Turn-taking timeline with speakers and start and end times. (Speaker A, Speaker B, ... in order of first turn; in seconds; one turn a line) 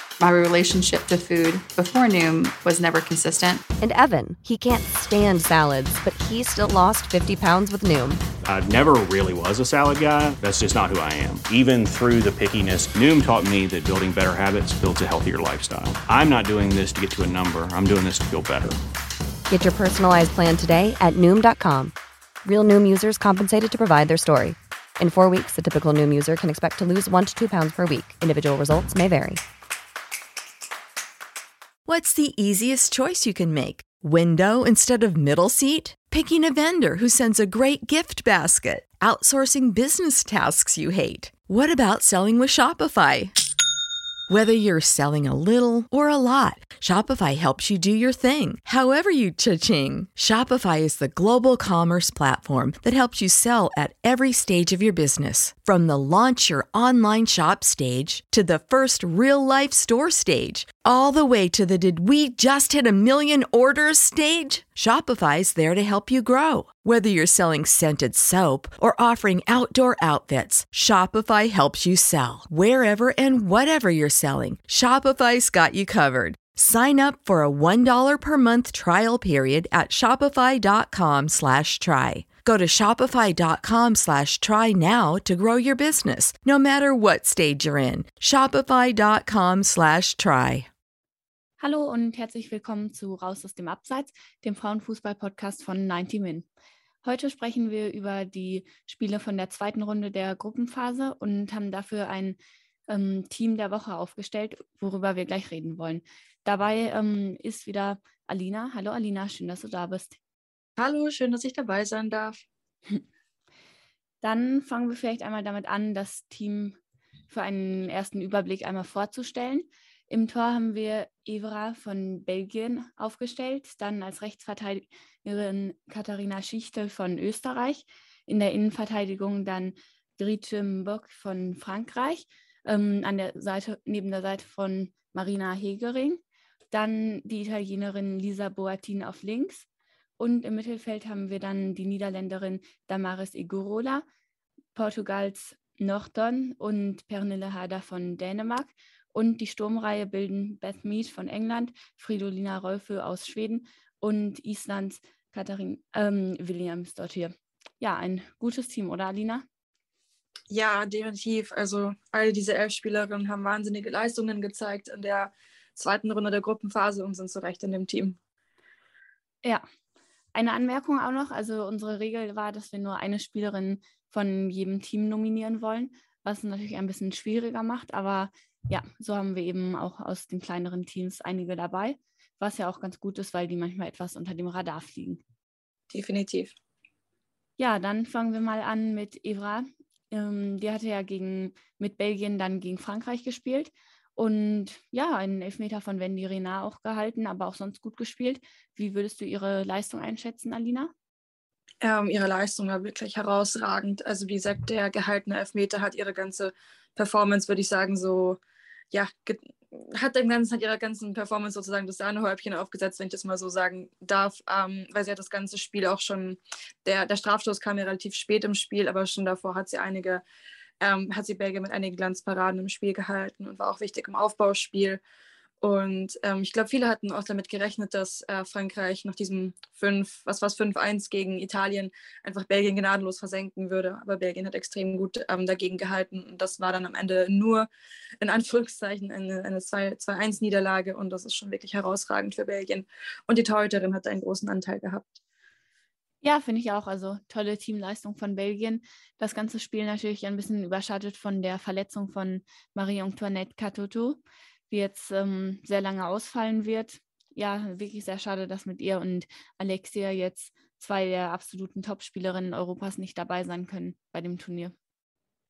Speaker A: 0.2-3.6
Speaker B: 3.8-8.2
Speaker C: 8.4-18.8
Speaker B: 19.5-29.4
Speaker D: 31.9-43.3
Speaker D: 44.3-90.7
Speaker E: 91.6-96.5
Speaker E: 97.0-110.2
Speaker F: 110.8-112.4
Speaker E: 114.2-116.8
Speaker E: 117.3-136.2
Speaker E: 136.7-139.7
Speaker E: 140.2-144.0
Speaker E: 144.7-159.4
Speaker F: 160.5-168.2
Speaker E: 170.3-185.2
Speaker F: 185.9-186.5
Speaker E: 187.6-200.9
Speaker F: 201.8-208.4
Speaker F: 208.9-220.2
Speaker F: 220.8-225.0
Speaker F: 225.6-237.7
Speaker F: 238.2-245.1
Speaker E: 246.2-264.7